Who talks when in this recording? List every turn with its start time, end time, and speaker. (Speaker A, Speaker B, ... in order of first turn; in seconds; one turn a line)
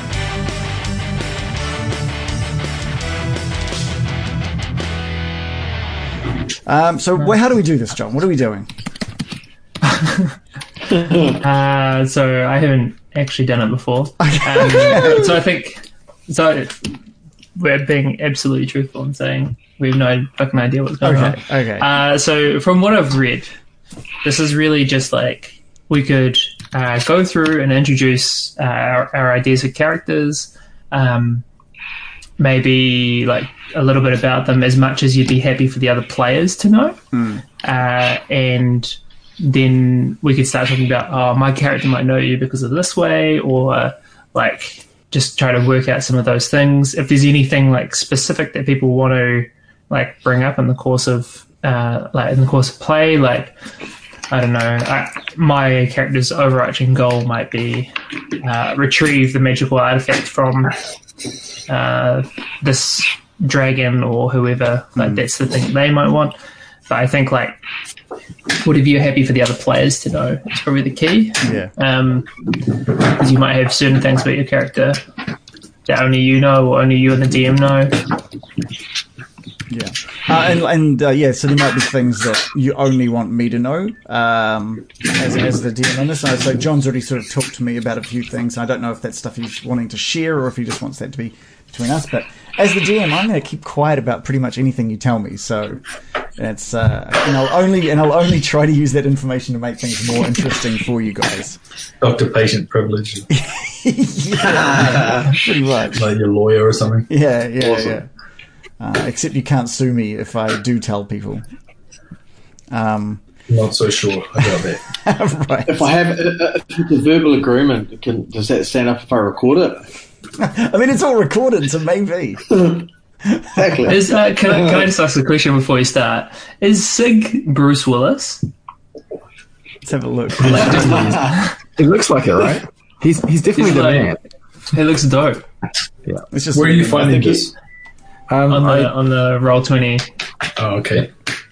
Speaker A: 6.6-8.7
Speaker B: 11.1-16.9
Speaker A: 14.2-15.3
Speaker B: 17.6-23.5
Speaker A: 21.0-21.9
Speaker B: 24.2-31.4
Speaker B: 32.4-37.0
Speaker A: 37.1-37.4
Speaker B: 37.6-53.5
Speaker B: 54.3-60.7
Speaker B: 61.7-66.3
Speaker A: 65.0-65.2
Speaker B: 66.8-67.6
Speaker B: 68.5-75.0
Speaker A: 71.4-71.7
Speaker B: 75.8-78.1
Speaker A: 79.7-95.8
Speaker A: 96.4-101.6
Speaker C: 102.0-103.3
Speaker A: 103.3-106.0
Speaker D: 104.4-105.3
Speaker C: 105.9-107.1
Speaker A: 107.1-108.1
Speaker D: 107.6-108.0
Speaker A: 108.8-111.4
Speaker A: 112.7-113.2
Speaker C: 113.5-114.8
Speaker A: 114.9-115.9
Speaker D: 115.7-119.8
Speaker A: 120.4-122.6
Speaker D: 122.5-122.9
Speaker D: 123.5-124.9
Speaker B: 123.8-128.4
Speaker A: 129.8-131.2
Speaker C: 130.4-131.2
Speaker D: 130.4-131.4
Speaker E: 131.8-134.2
Speaker B: 133.5-134.1
Speaker B: 134.7-135.4
Speaker A: 136.3-137.5
Speaker C: 136.5-137.5
Speaker E: 138.3-138.9
Speaker B: 138.5-140.1
Speaker C: 140.6-141.1